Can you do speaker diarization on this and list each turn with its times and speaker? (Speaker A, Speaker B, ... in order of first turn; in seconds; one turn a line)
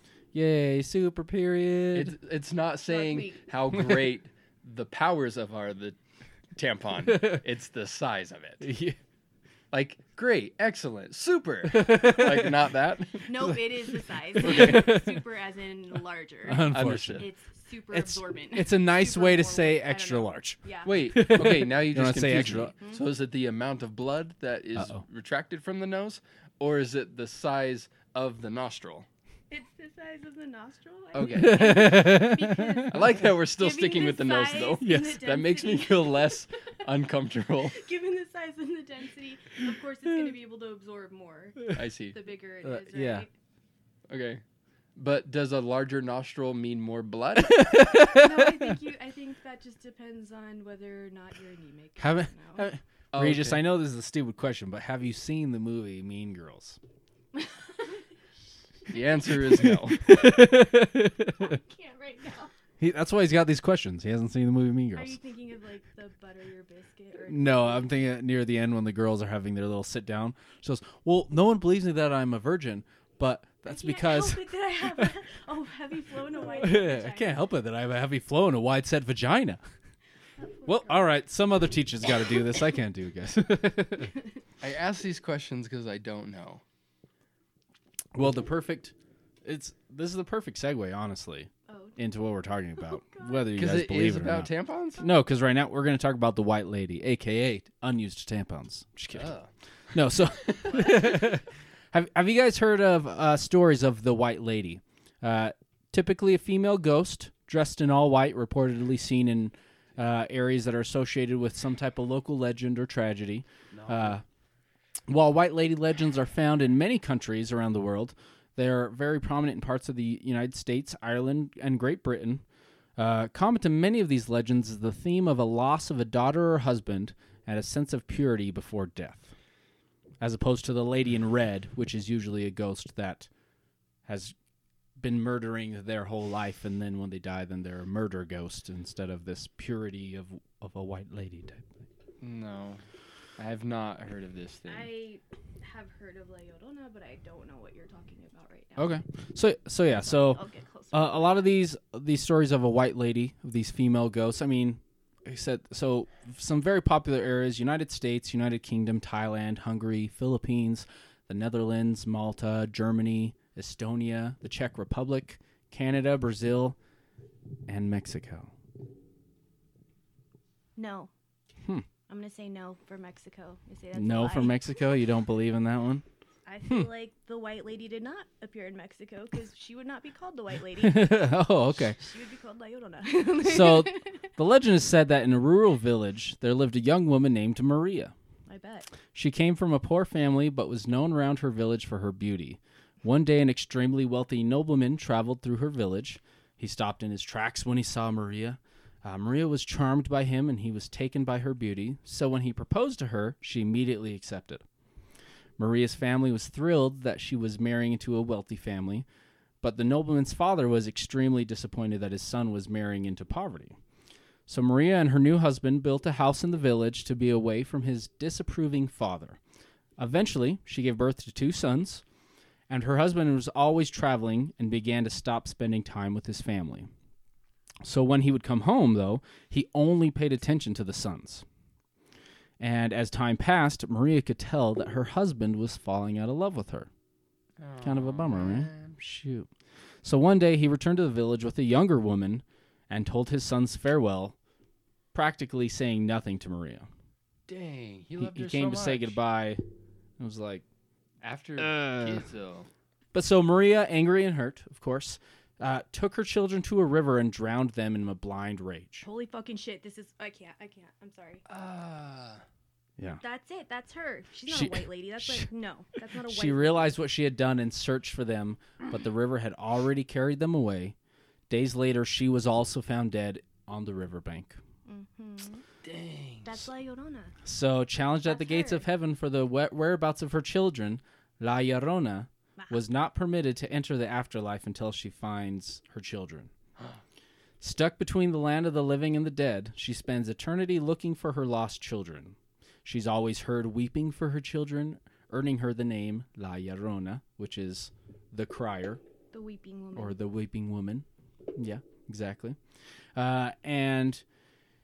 Speaker A: 0.3-2.2
Speaker B: 1.9-6.0
Speaker C: 2.9-3.4
Speaker B: 6.5-8.6
Speaker A: 8.6-9.0
Speaker B: 9.7-13.3
Speaker A: 11.7-12.6
Speaker C: 13.3-20.9
Speaker A: 14.3-15.2
Speaker B: 14.4-14.8
Speaker A: 16.5-17.3
Speaker B: 16.7-17.3
Speaker A: 17.9-22.7
Speaker B: 20.9-29.1
Speaker A: 24.8-25.0
Speaker C: 29.5-36.3
Speaker B: 31.1-32.1
Speaker A: 31.3-33.1
Speaker B: 32.9-37.8
Speaker A: 34.8-35.2
Speaker C: 37.7-43.3
Speaker B: 41.7-42.2
Speaker A: 42.6-43.3
Speaker B: 44.1-44.4
Speaker B: 45.0-47.7
Speaker A: 47.5-48.8
Speaker C: 47.8-52.6
Speaker A: 52.0-56.8
Speaker B: 53.1-53.6
Speaker B: 58.9-60.0
Speaker A: 59.5-61.6
Speaker C: 61.4-62.5
Speaker A: 62.8-65.2
Speaker C: 65.0-67.9
Speaker A: 67.3-74.4
Speaker C: 73.7-77.4
Speaker A: 76.5-79.6
Speaker C: 80.4-81.1
Speaker A: 80.7-84.1
Speaker B: 84.6-86.6
Speaker A: 88.2-99.3
Speaker C: 91.7-92.0
Speaker C: 92.8-93.5
Speaker B: 93.5-95.0
Speaker B: 99.1-99.5
Speaker A: 99.9-114.2
Speaker C: 100.7-101.1
Speaker B: 113.7-114.2
Speaker A: 115.1-122.4
Speaker A: 123.0-129.3
Speaker A: 130.2-133.3
Speaker A: 134.1-134.3
Speaker A: 135.0-141.8
Speaker B: 142.2-142.8
Speaker B: 143.4-144.9
Speaker C: 144.7-149.0
Speaker A: 148.8-150.4
Speaker C: 150.0-151.5
Speaker A: 150.9-166.8
Speaker A: 167.7-168.5
Speaker C: 170.8-171.1
Speaker C: 172.1-174.7
Speaker A: 173.9-176.0
Speaker C: 176.5-181.3
Speaker A: 180.8-182.0
Speaker C: 182.0-184.2
Speaker A: 183.4-188.1
Speaker C: 188.5-188.9
Speaker A: 189.1-204.6
Speaker A: 205.6-209.1
Speaker A: 209.6-213.8
Speaker A: 214.5-219.4
Speaker A: 220.0-222.0
Speaker A: 222.7-226.9
Speaker A: 227.8-231.4
Speaker A: 232.6-236.9
Speaker B: 237.6-239.0
Speaker A: 237.8-239.5
Speaker A: 240.0-244.4
Speaker A: 245.1-246.9
Speaker B: 247.5-249.2
Speaker A: 248.2-249.6
Speaker A: 250.2-250.6
Speaker B: 251.2-252.7
Speaker A: 251.6-252.3
Speaker A: 253.1-259.1
Speaker C: 259.0-261.4
Speaker B: 261.5-262.4
Speaker C: 263.2-266.9
Speaker A: 264.5-265.5
Speaker A: 266.2-270.9
Speaker A: 271.5-274.6
Speaker C: 274.9-275.6
Speaker B: 275.8-276.6
Speaker C: 276.4-277.3
Speaker A: 277.4-286.5
Speaker C: 278.2-278.9
Speaker A: 287.6-299.0
Speaker C: 299.3-300.2
Speaker A: 300.0-302.6
Speaker A: 303.1-304.2